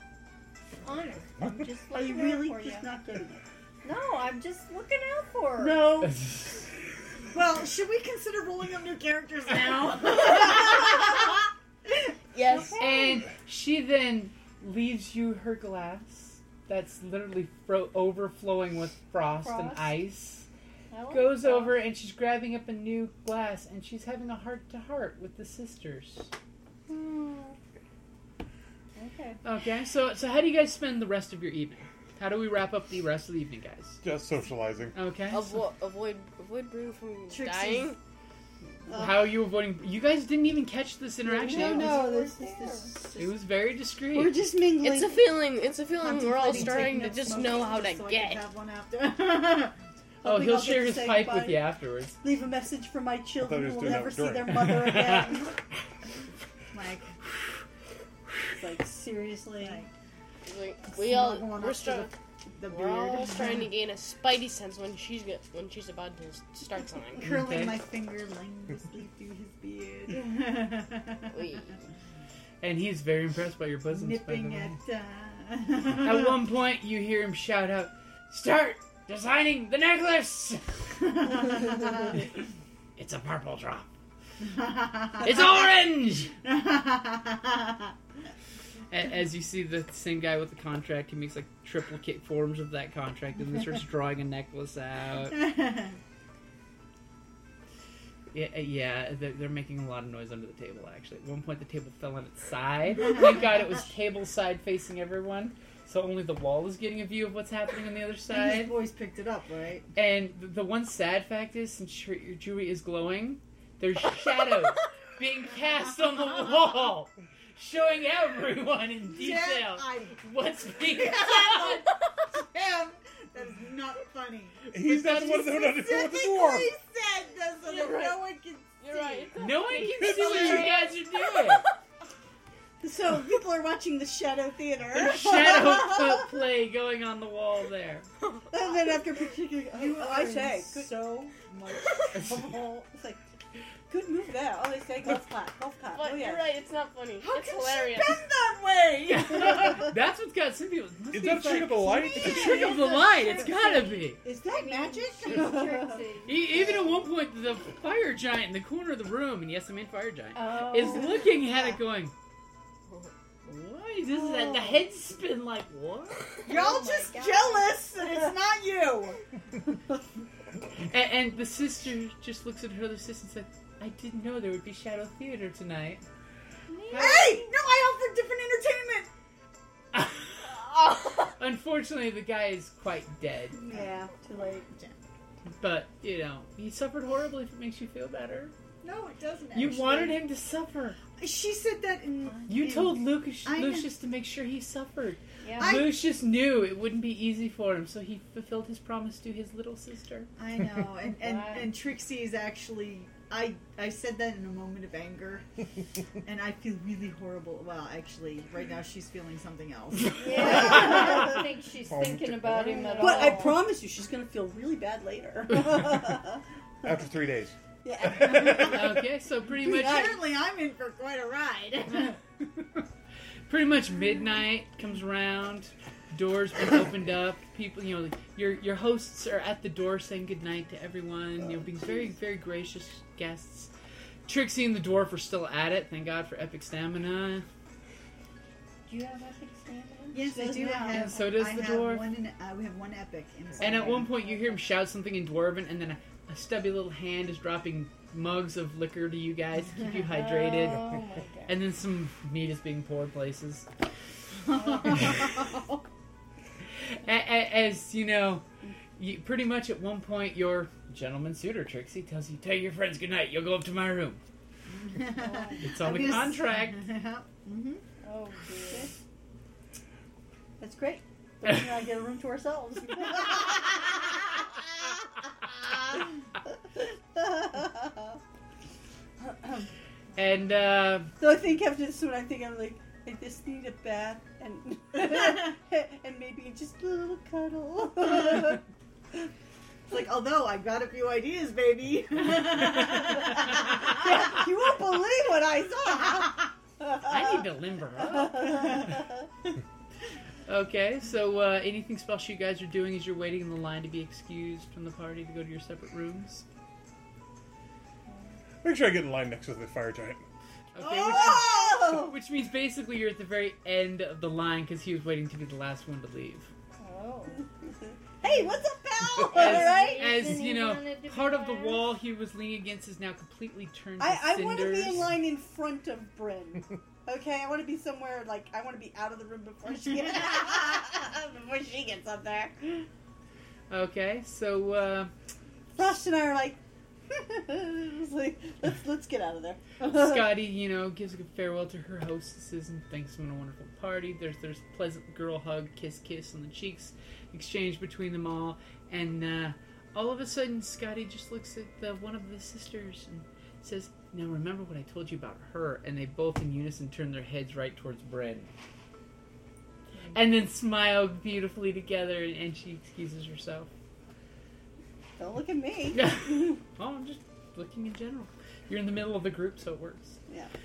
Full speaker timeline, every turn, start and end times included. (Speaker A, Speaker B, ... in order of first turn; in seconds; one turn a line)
Speaker A: 0.8-2.9
Speaker B: 1.9-3.4
Speaker A: 3.8-6.0
Speaker B: 5.6-6.1
Speaker C: 6.0-6.6
Speaker D: 7.3-11.3
Speaker E: 12.3-12.8
Speaker A: 12.5-13.3
Speaker C: 12.8-20.5
Speaker A: 19.4-20.0
Speaker A: 20.9-21.8
Speaker C: 21.1-26.3
Speaker A: 26.9-27.5
Speaker B: 29.0-29.4
Speaker C: 29.4-34.0
Speaker F: 34.0-35.0
Speaker C: 35.0-35.5
Speaker E: 35.3-38.0
Speaker D: 37.3-38.0
Speaker B: 38.9-39.3
Speaker C: 38.9-42.0
Speaker B: 41.3-43.0
Speaker A: 41.5-42.9
Speaker C: 43.2-44.5
Speaker B: 44.1-45.2
Speaker E: 44.8-48.5
Speaker B: 46.0-47.2
Speaker D: 46.0-49.8
Speaker B: 50.2-51.7
Speaker C: 50.2-52.2
Speaker B: 52.2-55.5
Speaker F: 53.4-55.0
Speaker D: 56.7-57.1
Speaker B: 58.6-59.9
Speaker D: 59.6-59.9
Speaker E: 60.5-62.1
Speaker D: 60.9-63.7
Speaker E: 62.7-67.2
Speaker D: 67.2-71.4
Speaker C: 67.2-67.8
Speaker E: 71.3-71.8
Speaker C: 72.6-74.8
Speaker D: 73.9-76.4
Speaker C: 76.0-81.1
Speaker D: 81.2-82.0
Speaker C: 83.0-83.9
Speaker D: 84.4-85.6
Speaker C: 85.2-86.3
Speaker D: 86.4-87.9
Speaker C: 88.9-95.5
Speaker D: 95.3-96.0
Speaker C: 98.3-108.8
Speaker D: 108.3-109.9
Speaker C: 110.0-121.9
Speaker D: 119.1-129.3
Speaker F: 124.7-126.7
Speaker C: 124.9-125.4
Speaker E: 127.6-128.3
Speaker E: 128.8-131.7
Speaker C: 129.4-131.7
Speaker D: 130.0-130.7
Speaker B: 132.8-135.7
Speaker D: 134.9-136.0
Speaker C: 134.9-138.1
Speaker B: 138.5-141.4
Speaker D: 139.7-142.6
Speaker B: 142.1-143.2
Speaker B: 143.9-146.5
Speaker E: 145.9-148.2
Speaker D: 147.2-149.8
Speaker C: 149.1-154.2
Speaker F: 151.1-152.7
Speaker A: 152.4-156.4
Speaker D: 154.2-156.0
Speaker B: 154.2-156.0
Speaker C: 156.2-162.1
Speaker A: 160.3-161.4
Speaker C: 163.5-166.4
Speaker A: 166.4-167.8
Speaker D: 166.4-169.2
Speaker C: 170.8-176.1
Speaker A: 176.7-177.5
Speaker D: 176.9-179.1
Speaker C: 179.9-180.4
Speaker C: 181.4-183.6
Speaker B: 183.6-184.7
Speaker D: 183.6-184.1
Speaker D: 184.7-185.0
Speaker C: 185.6-188.5
Speaker D: 188.8-190.2
Speaker C: 189.5-191.0
Speaker D: 191.2-193.9
Speaker C: 192.5-200.3
Speaker A: 195.4-195.8
Speaker D: 195.6-196.0
Speaker D: 200.4-205.5
Speaker A: 201.2-201.7
Speaker D: 206.2-211.2
Speaker A: 210.1-213.7
Speaker B: 210.3-211.3
Speaker F: 211.9-213.3
Speaker B: 213.0-216.4
Speaker F: 216.8-217.5
Speaker B: 217.8-218.9
Speaker D: 218.3-218.7
Speaker C: 218.4-220.2
Speaker D: 219.6-222.2
Speaker B: 219.6-220.2
Speaker C: 223.5-233.7
Speaker C: 234.3-237.5
Speaker A: 238.9-240.2
Speaker D: 240.1-244.1
Speaker B: 240.2-241.2
Speaker C: 240.9-242.1
Speaker C: 243.6-250.9
Speaker A: 243.7-244.6
Speaker A: 250.1-251.6
Speaker C: 251.4-253.7
Speaker D: 254.5-255.4
Speaker A: 254.5-255.0
Speaker C: 256.8-258.4
Speaker C: 259.0-264.2
Speaker D: 264.7-267.8
Speaker A: 265.1-265.8
Speaker C: 265.6-266.9
Speaker A: 268.0-268.9
Speaker B: 270.6-273.9
Speaker B: 276.8-278.0
Speaker B: 279.2-279.7
Speaker C: 280.1-281.1
Speaker B: 281.2-288.6
Speaker D: 289.9-294.3
Speaker B: 292.8-297.4
Speaker D: 296.0-296.2
Speaker C: 297.0-299.0
Speaker C: 300.5-306.4
Speaker F: 308.6-310.2
Speaker C: 310.7-316.5
Speaker B: 310.8-312.2
Speaker A: 316.8-317.4
Speaker B: 318.2-320.2
Speaker A: 319.2-321.9
Speaker C: 319.3-325.2
Speaker B: 324.0-332.9
Speaker C: 333.7-335.1
Speaker B: 335.8-340.4
Speaker C: 339.8-358.5
Speaker C: 360.1-363.7
Speaker B: 365.2-366.6
Speaker C: 365.9-370.2